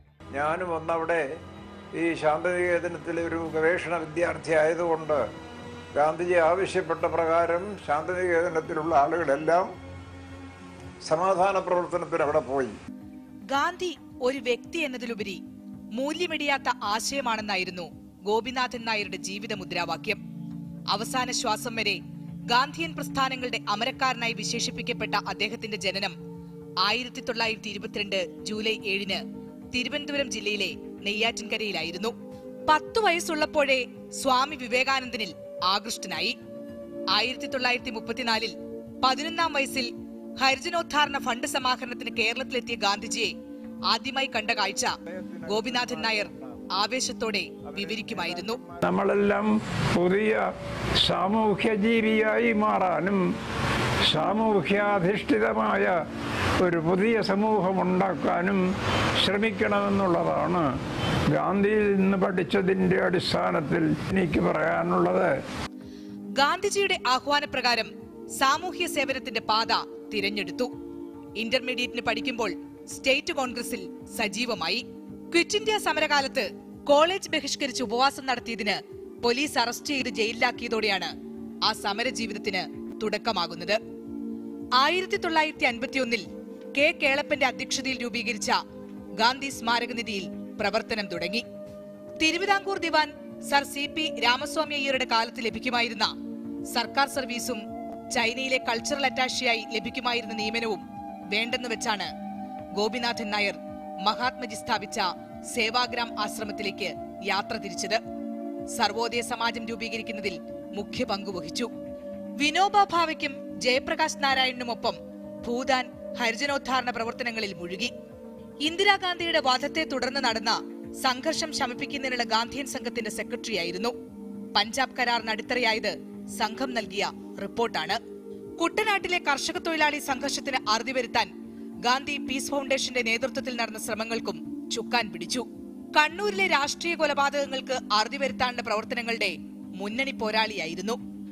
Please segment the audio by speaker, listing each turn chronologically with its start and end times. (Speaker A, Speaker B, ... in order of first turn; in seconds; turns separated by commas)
Speaker A: 0.3-1.2, Speaker A: 2.0-5.2, Speaker A: 6.0-9.7, Speaker A: 11.1-12.7, Speaker B: 13.5-15.4, Speaker B: 16.0-20.2, Speaker B: 20.9-22.0, Speaker B: 22.6-26.1, Speaker B: 26.9-29.2, Speaker B: 29.8-32.0, Speaker B: 32.8-33.7, Speaker B: 34.3-36.2, Speaker B: 37.2-38.5, Speaker B: 39.0-39.9, Speaker B: 40.5-43.3, Speaker B: 44.4-44.8, Speaker A: 44.6-48.8, Speaker B: 45.5-46.3, Speaker B: 47.0-48.6, Speaker C: 48.3-50.4, Speaker C: 51.0-53.2, Speaker C: 54.1-55.9, Speaker C: 56.6-58.6, Speaker C: 59.2-60.6, Speaker C: 61.3-65.3, Speaker B: 66.4-67.9, Speaker B: 68.5-70.7, Speaker B: 71.4-74.8, Speaker B: 75.3-78.7, Speaker B: 79.2-81.1, Speaker B: 81.7-83.8, Speaker B: 84.9-86.2, Speaker B: 86.8-88.5, Speaker B: 89.2-91.4, Speaker B: 92.2-96.1, Speaker B: 96.8-97.6, Speaker B: 98.1-100.8, Speaker B: 101.4-102.1, Speaker B: 102.8-105.0, Speaker B: 105.5-108.0, Speaker B: 108.8-111.7, Speaker B: 112.5-117.9, Speaker B: 119.0-120.5, Speaker B: 121.4-123.9, Speaker B: 124.6-125.8, Speaker B: 126.7-128.0, Speaker B: 129.6-130.6, Speaker B: 132.1-132.8, Speaker B: 133.7-134.9, Speaker B: 136.6-137.0, Speaker B: 138.1-139.3, Speaker B: 140.3-140.9